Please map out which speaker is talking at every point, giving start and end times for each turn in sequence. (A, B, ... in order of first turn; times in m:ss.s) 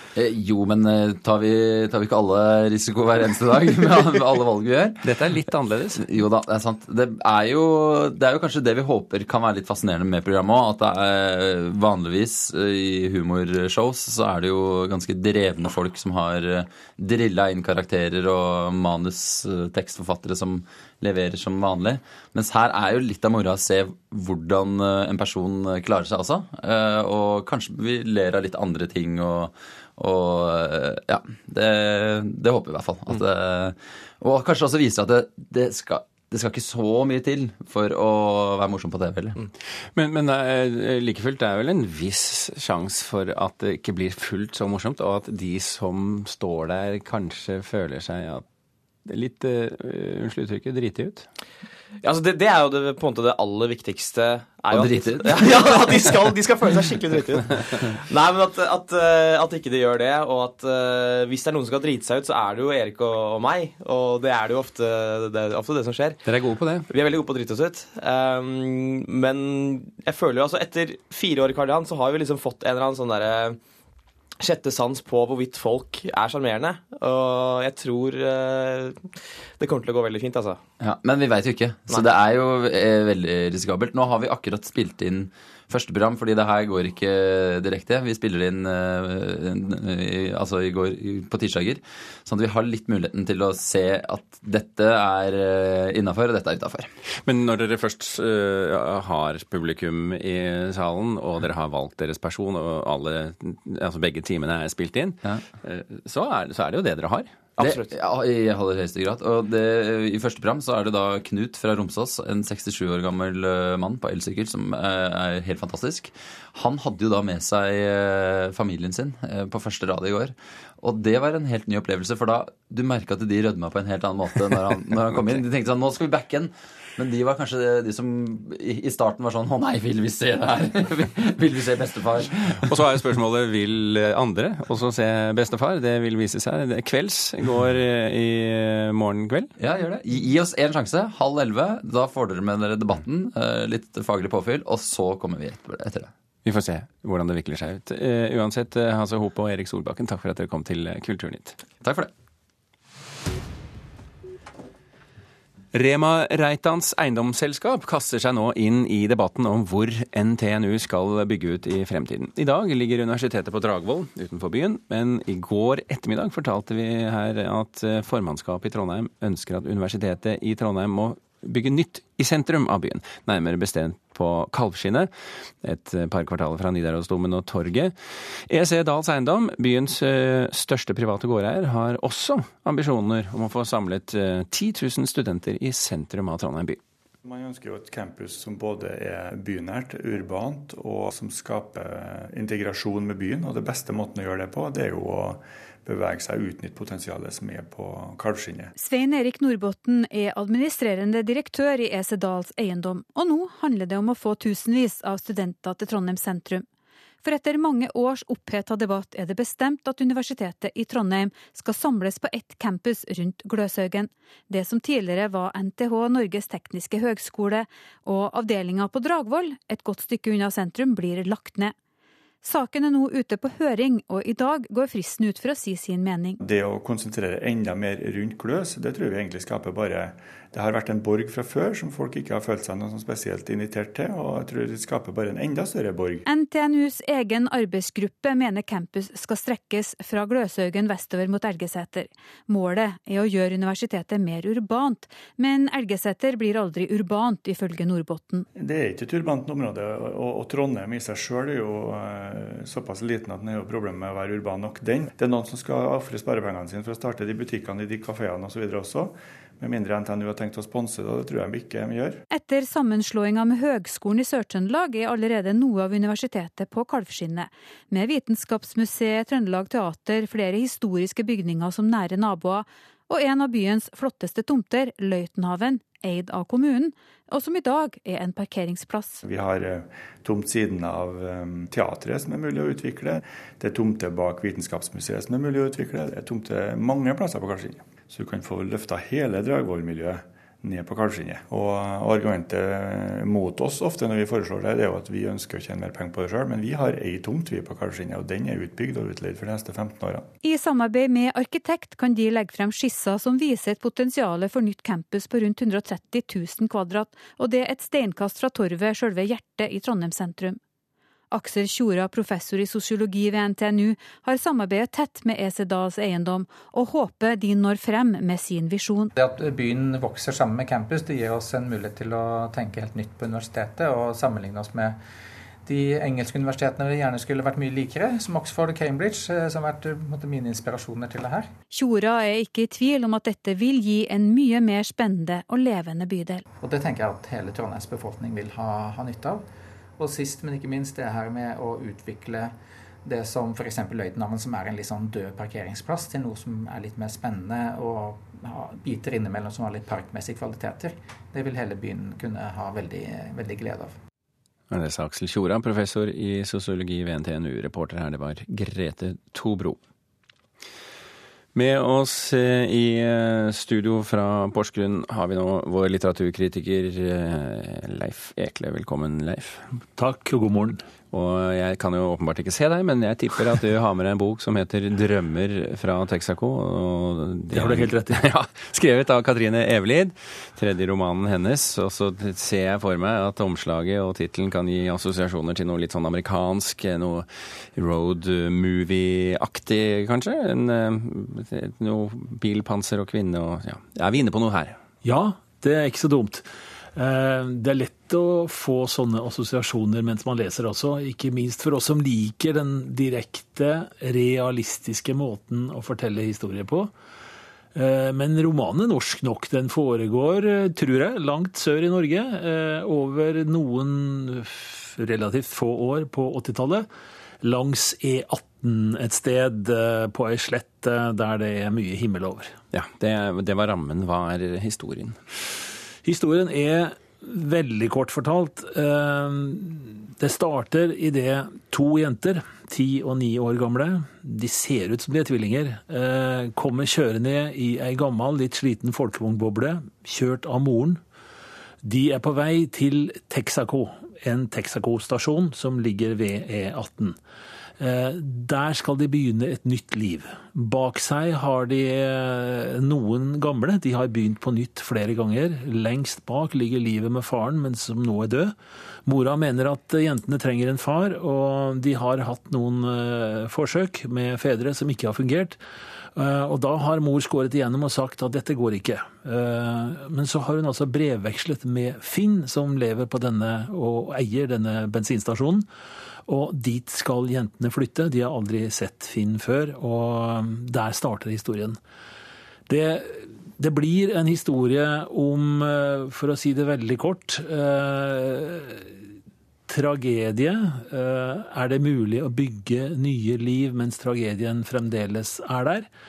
0:00.1-0:05.1 A
0:05.0-0:06.0 B
0:05.9-0:39.4 A
0:40.0-0:48.4 B
0:49.0-0:51.3 B
0:52.0-1:06.3 C
0:54.7-0:56.1 A
1:06.2-1:06.8 B
1:06.9-1:13.6 C
1:14.4-1:20.6 C
1:20.8-1:36.9 A
1:37.2-1:47.3 B
1:47.6-1:47.9 C
1:47.6-2:12.7 A
2:12.7-2:19.5 B
2:19.6-2:26.1 A
2:26.4-2:31.6 B
2:31.8-2:32.1 A
2:35.7-2:55.1 B
2:55.6-2:57.9 B
2:58.5-3:06.8 B
3:07.2-3:18.7 D
3:18.7-3:26.6 E
3:27.2-3:41.7 E
3:42.4-3:46.4 E
3:46.4-3:56.2 D
3:56.2-4:08.5 E
4:08.5-4:22.2 D
4:22.3-4:39.2 E
4:39.2-5:00.3 D
5:00.4-5:10.6 E
5:11.3-5:19.1 E
5:19.2-5:25.0 F
5:25.6-5:31.5 F
5:31.7-5:36.4 E
5:36.6-5:39.4 F
5:40.0-5:42.5 F
5:43.0-5:54.0 F
5:54.7-5:59.8 B
6:01.5-6:09.6 B
6:10.0-6:10.8 G
6:11.1-6:34.8 B
6:17.5-6:18.2 G
6:35.0-6:46.9 G
6:47.7-6:56.9 G
6:57.4-7:02.5 G
7:02.7-7:05.2 B
7:06.0-7:21.0 G
7:21.8-7:27.2 G
7:27.8-7:38.5 G
7:39.0-7:45.6 G
7:46.2-7:55.6 G
7:56.3-8:01.8 G
8:02.7-8:08.9 G
8:09.7-8:15.9 G